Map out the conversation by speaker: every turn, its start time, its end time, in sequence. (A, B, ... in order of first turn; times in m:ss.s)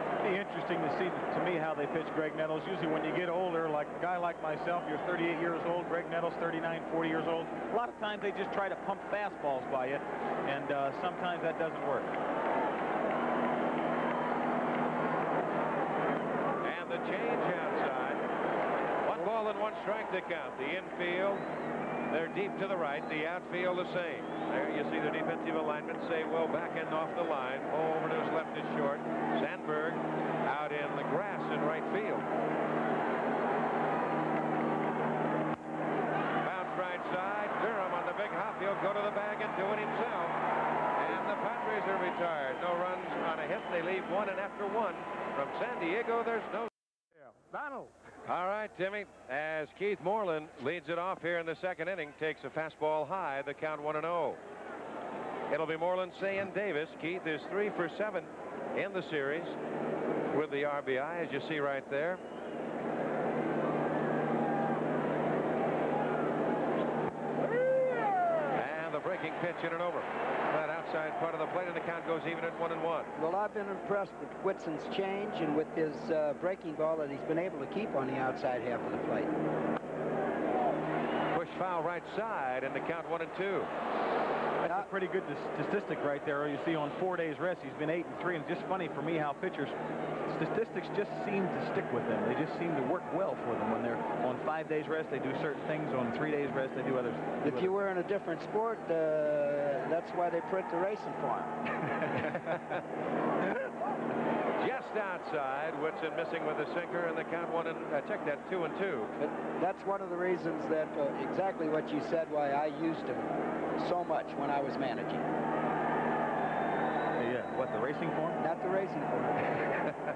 0:00.2-0:12.2 A
0:16.6-0:18.2 B
0:19.0-0:21.4 B
0:22.1-0:32.3 B
0:36.4-0:40.4 B
0:40.9-0:46.7 B
0:48.2-0:54.4 B
0:55.5-0:59.6 B
1:00.3-1:02.2 B
1:08.5-1:13.1 B
1:13.1-1:19.3 C
1:21.3-1:23.7 B
1:24.6-1:29.7 A
1:30.3-1:37.7 A
1:37.4-1:41.5 C
1:44.6-1:49.1 B
1:49.2-1:55.2 C
1:57.2-1:58.4 A
1:58.4-1:59.8 C